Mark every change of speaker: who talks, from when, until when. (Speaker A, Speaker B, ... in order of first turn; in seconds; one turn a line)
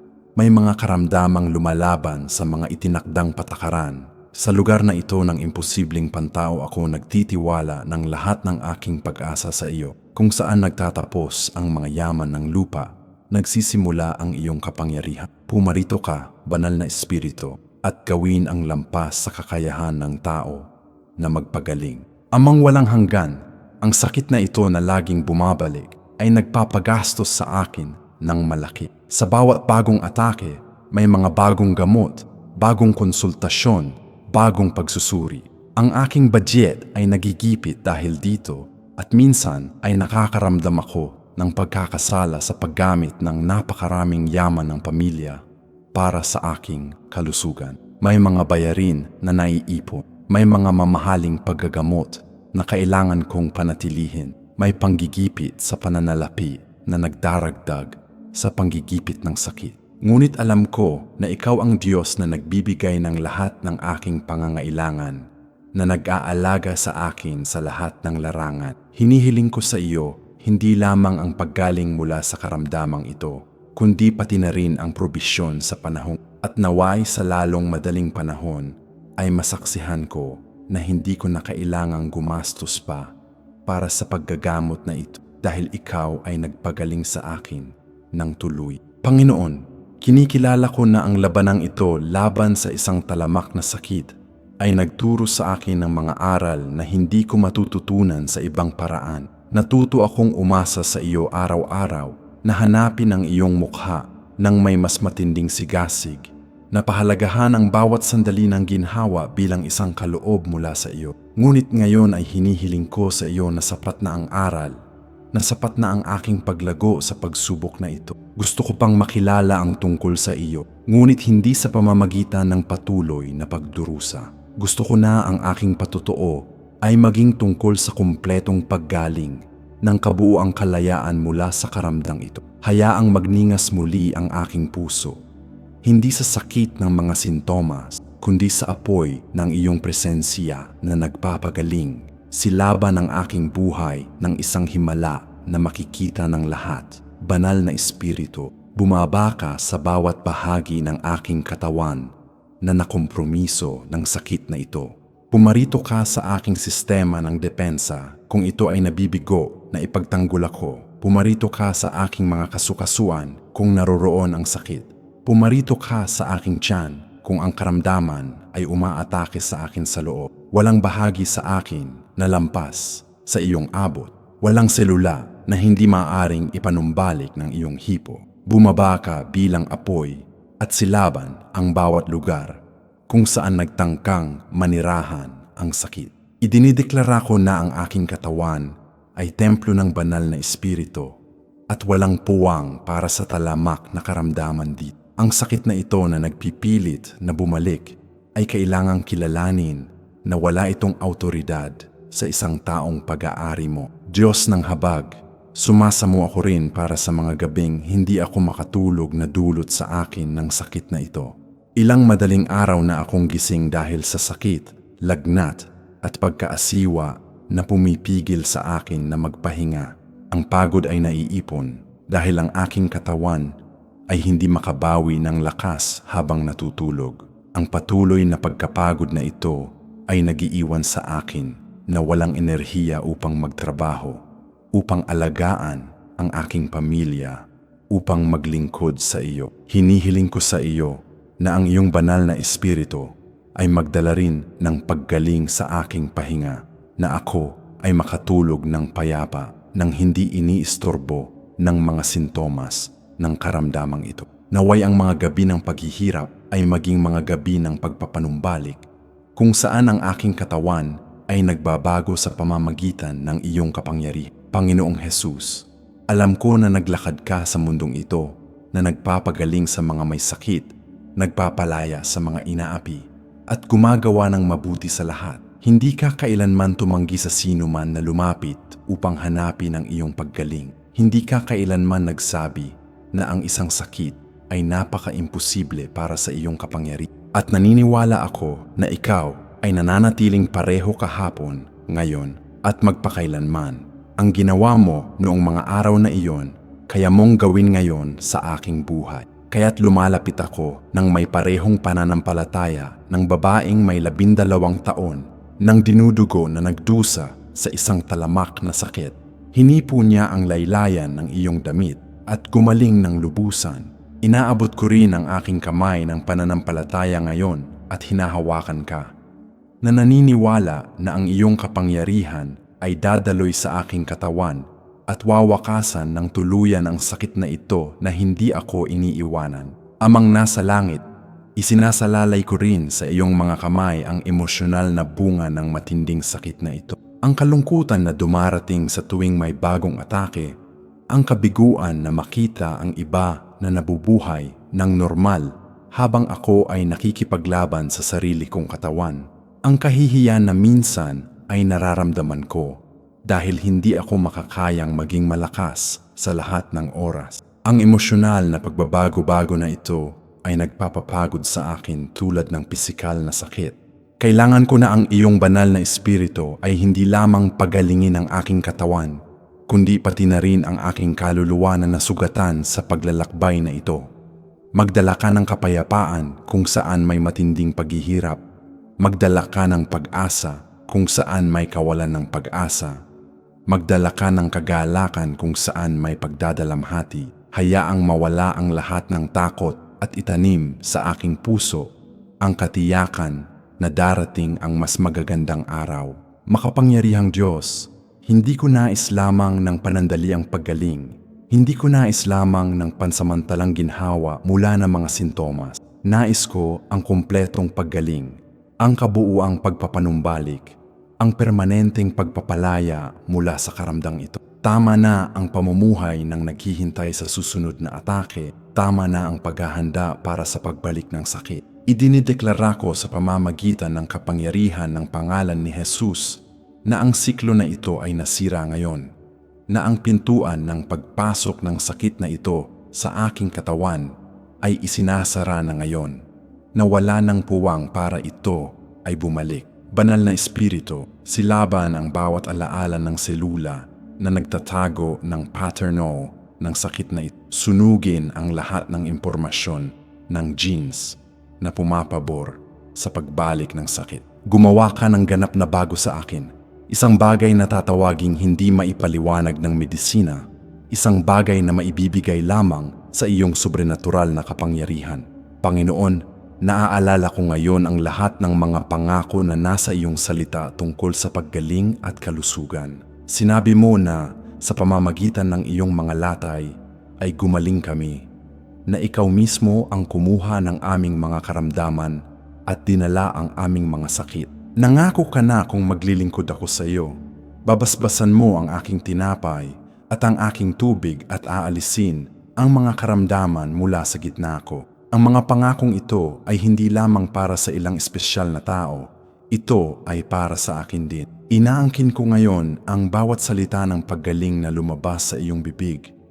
Speaker A: 0.4-20.7
Speaker A: 21.2-45.4
Speaker A: 45.9-83.1
Speaker A: 83.7-114.8
Speaker A: 115.3-135.2
Speaker A: 135.8-191.2
Speaker A: 191.7-223.6
Speaker A: 224.1-234.2
Speaker A: 234.7-258.9
Speaker A: 259.4-319.1
Speaker A: 319.8-331.0
Speaker A: 331.6-340.6
Speaker A: 341.1-374.1
Speaker A: 374.8-378.4
Speaker A: 379.0-383.0
Speaker A: 383.7-429.1
Speaker A: 429.7-436.2
Speaker A: 436.8-478.3
Speaker A: 478.9-506.1